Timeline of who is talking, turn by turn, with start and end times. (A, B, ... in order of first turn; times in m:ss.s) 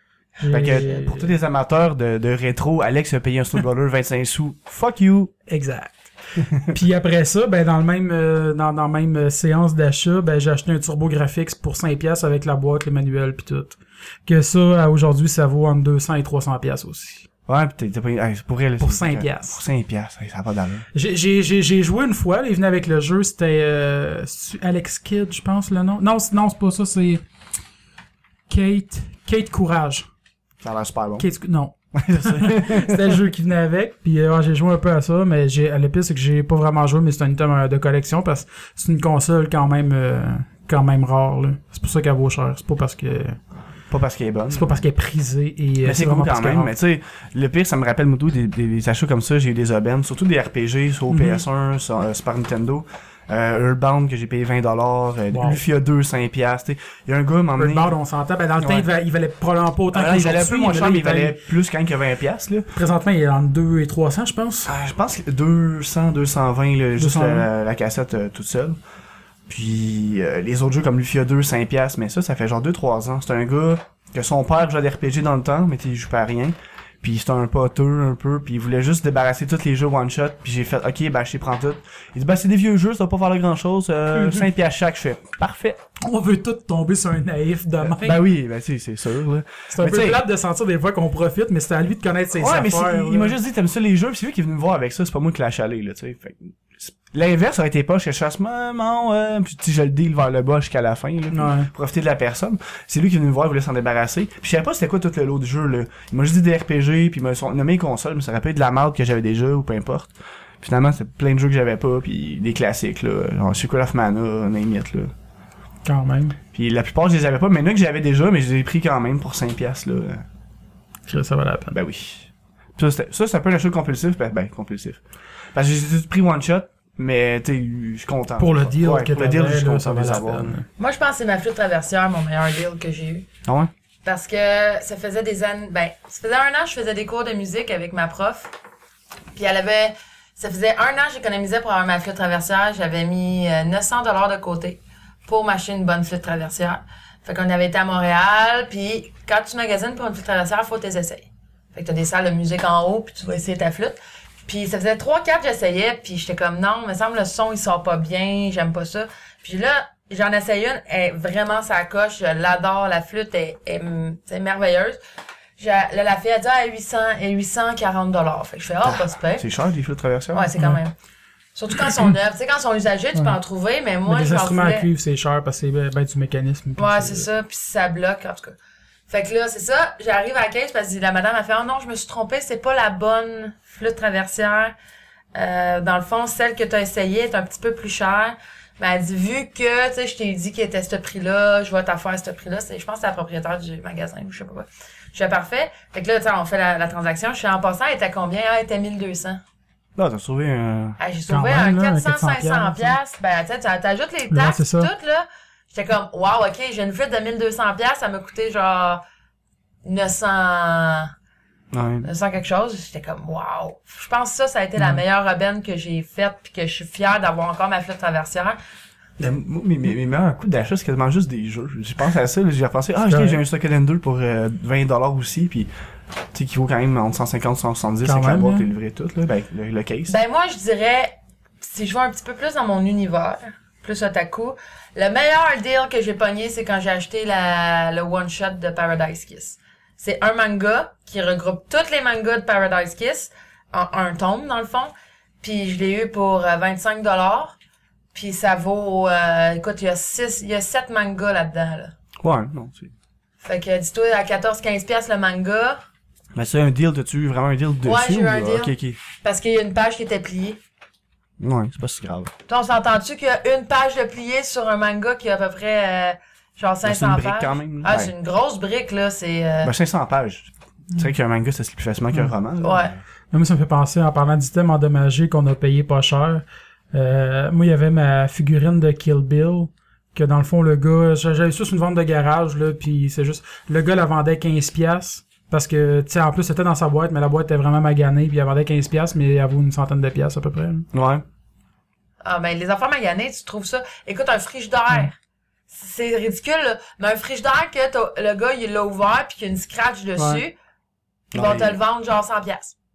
0:00.4-0:01.3 A
0:00.5-0:05.3 B
0:05.5-0:06.1 A
0:06.4-0:06.7 B
0:06.7-0:17.2 A
0:17.5-0:20.9 B
0:18.8-0:19.6 A
0:20.9-0:27.2 A
0:28.5-0:30.1 A
0:30.6-0:31.3 B
0:31.2-0:43.4 A
0:31.9-0:33.2 B
0:43.9-0:44.8 B
0:44.5-0:46.7 A
0:45.8-0:57.9 B
0:51.1-0:51.4 A
0:55.3-0:55.6 A
0:57.6-1:01.4 A
0:58.6-0:58.9 B
0:59.9-1:02.7 B
1:02.7-1:04.7 A
1:04.6-1:08.8 B
1:07.0-1:07.5 A
1:09.5-1:25.8 B
1:24.1-1:24.4 A
1:26.0-1:28.2 A
1:27.8-1:30.2 B
1:29.7-1:33.3 A
1:32.3-1:55.1 B
1:41.3-1:41.7 A
1:55.8-1:56.4 A
1:56.5-2:00.2 B
2:01.1-2:01.8 A
2:01.7-2:05.0 B
2:05.5-2:10.6 B
2:08.4-2:10.6 A
2:10.8-2:13.2 C
2:13.4-2:13.7 B
2:14.0-2:18.5 C
2:19.3-2:45.0 C
2:45.6-2:49.4 C
2:48.8-2:50.5 B
2:50.3-2:50.9 C
2:51.5-2:54.9 C
2:54.1-2:57.3 A
2:56.8-2:58.6 C
2:59.1-3:04.7 C
3:05.3-3:19.4 C
3:20.0-3:21.0 B
3:21.0-3:29.0 C
3:21.3-3:23.0 A
3:24.3-3:24.9 A
3:29.8-3:31.1 C
3:31.7-3:32.1 B
3:32.0-3:38.6 C
3:39.2-3:45.7 B
3:43.1-3:43.4 A
3:46.3-3:50.1 B
3:48.0-3:48.7 A
3:50.1-4:07.6 C
4:08.1-4:11.9 C
4:12.2-4:12.9 B
4:13.4-4:15.8 C
4:16.3-4:19.0 B
4:17.8-4:20.6 C
4:21.4-4:22.3 B
4:22.5-4:29.7 C
4:26.8-4:28.1 B
4:29.6-4:33.0 B
4:32.6-4:32.9 C
4:33.3-4:50.8 A
4:50.9-4:51.2 B
4:52.2-4:55.1 C
4:55.7-5:00.5 C
5:00.2-5:00.4 A
5:01.3-5:01.8 B
5:01.3-5:02.7 C